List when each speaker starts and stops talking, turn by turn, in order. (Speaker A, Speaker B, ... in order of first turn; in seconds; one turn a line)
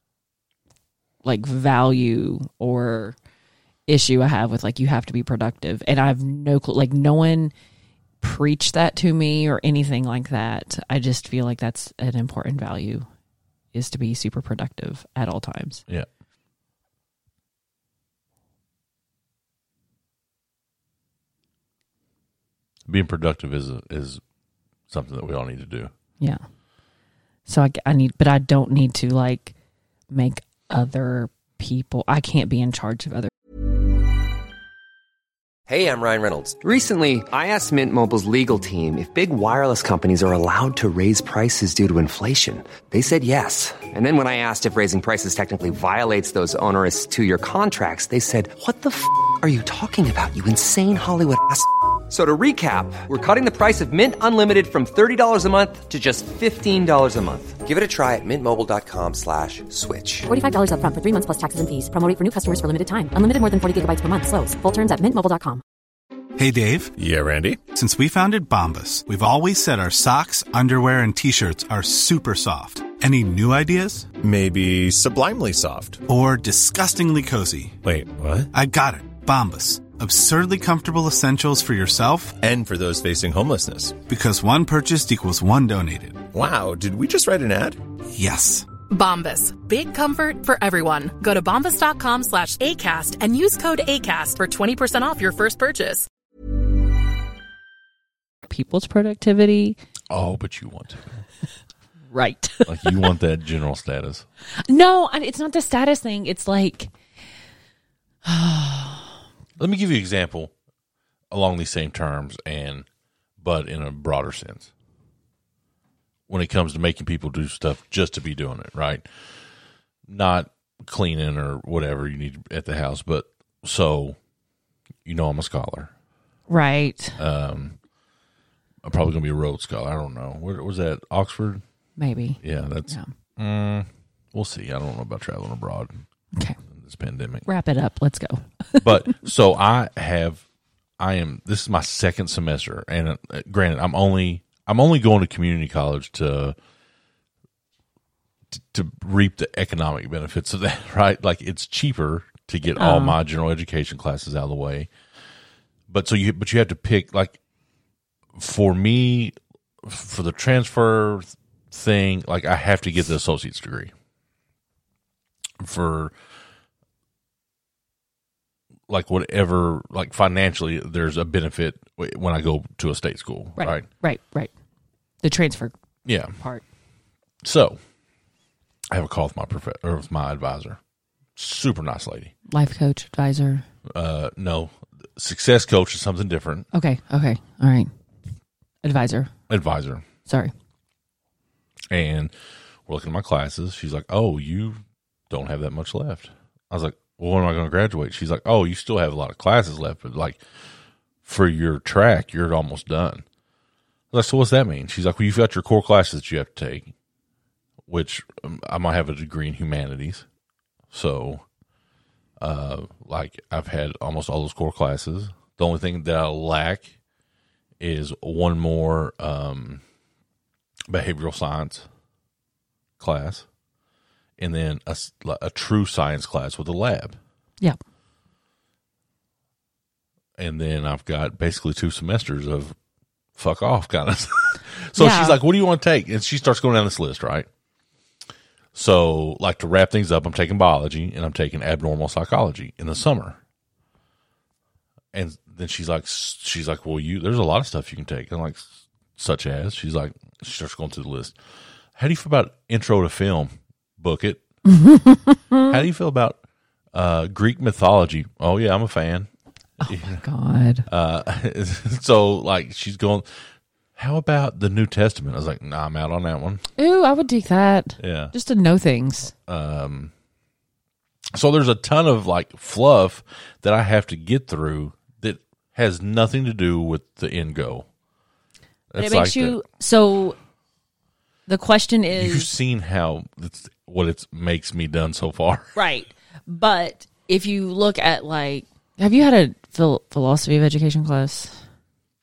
Speaker A: 1.2-3.1
Speaker A: 3.9-7.5
Speaker A: 8.2-13.1
Speaker A: 13.7-15.8
Speaker B: 22.9-24.2
Speaker B: 24.9-25.9
Speaker A: 27.5-29.5
Speaker A: 30.1-33.3
Speaker C: 35.7-60.3
Speaker D: 60.3-65.6
Speaker E: 66.4-67.0
Speaker F: 67.0-67.6
Speaker E: 67.7-74.1
Speaker F: 74.2-76.0
Speaker E: 76.1-77.8
Speaker F: 77.8-78.5
Speaker E: 78.5-82.4
Speaker F: 82.4-84.0
Speaker E: 84.0-86.3
Speaker F: 86.3-87.8
Speaker E: 88.1-88.7
Speaker G: 88.9-96.1
Speaker A: 98.5-99.8
Speaker B: 100.1-101.2
Speaker A: 102.1-103.1
Speaker B: 102.7-104.2
Speaker A: 104.7-106.9
Speaker A: 108.2-109.2
Speaker B: 109.6-110.5
Speaker B: 111.3-112.8
Speaker B: 113.4-114.7
Speaker B: 116.3-119.0
Speaker B: 120.1-124.2
Speaker B: 125.0-125.9
Speaker A: 126.5-127.2
Speaker B: 127.2-127.8
Speaker B: 128.8-131.6
Speaker A: 132.0-133.1
Speaker B: 132.4-136.0
Speaker B: 136.7-137.5
Speaker A: 137.5-139.2
Speaker B: 138.8-140.4
Speaker B: 141.0-146.6
Speaker B: 148.5-154.9
Speaker A: 152.8-153.2
Speaker B: 155.9-157.4
Speaker B: 158.3-163.9
Speaker B: 165.6-166.1
Speaker B: 168.9-173.8
Speaker A: 173.6-174.5
Speaker A: 175.2-175.7
Speaker B: 176.1-176.3
Speaker B: 177.4-177.8
Speaker B: 178.9-180.8
Speaker B: 181.4-182.3
Speaker A: 182.5-183.6
Speaker B: 183.9-186.7
Speaker A: 186.7-187.9
Speaker A: 188.8-189.3
Speaker B: 189.5-190.0
Speaker A: 190.3-190.5
Speaker B: 191.9-192.3
Speaker B: 192.8-200.4
Speaker B: 201.2-203.2
Speaker B: 204.1-206.9
Speaker B: 207.9-210.2
Speaker B: 210.9-211.4
Speaker B: 212.4-216.9
Speaker B: 217.8-219.8
Speaker B: 220.9-221.8
Speaker B: 223.0-223.4
Speaker B: 224.4-227.2
Speaker B: 230.4-232.8
Speaker B: 233.3-237.5
Speaker A: 234.9-235.4
Speaker B: 238.7-243.4
Speaker B: 245.1-251.3
Speaker B: 251.9-254.4
Speaker A: 254.7-255.8
Speaker B: 255.7-256.4
Speaker B: 256.9-259.3
Speaker A: 259.8-260.9
Speaker B: 259.8-260.2
Speaker B: 260.9-263.3
Speaker B: 263.9-266.6
Speaker A: 266.8-269.3
Speaker B: 268.0-268.3
Speaker B: 269.4-270.1
Speaker B: 271.3-277.9
Speaker B: 278.9-279.6
Speaker A: 279.0-280.4
Speaker A: 281.5-282.5
Speaker B: 282.1-285.7
Speaker A: 285.8-291.6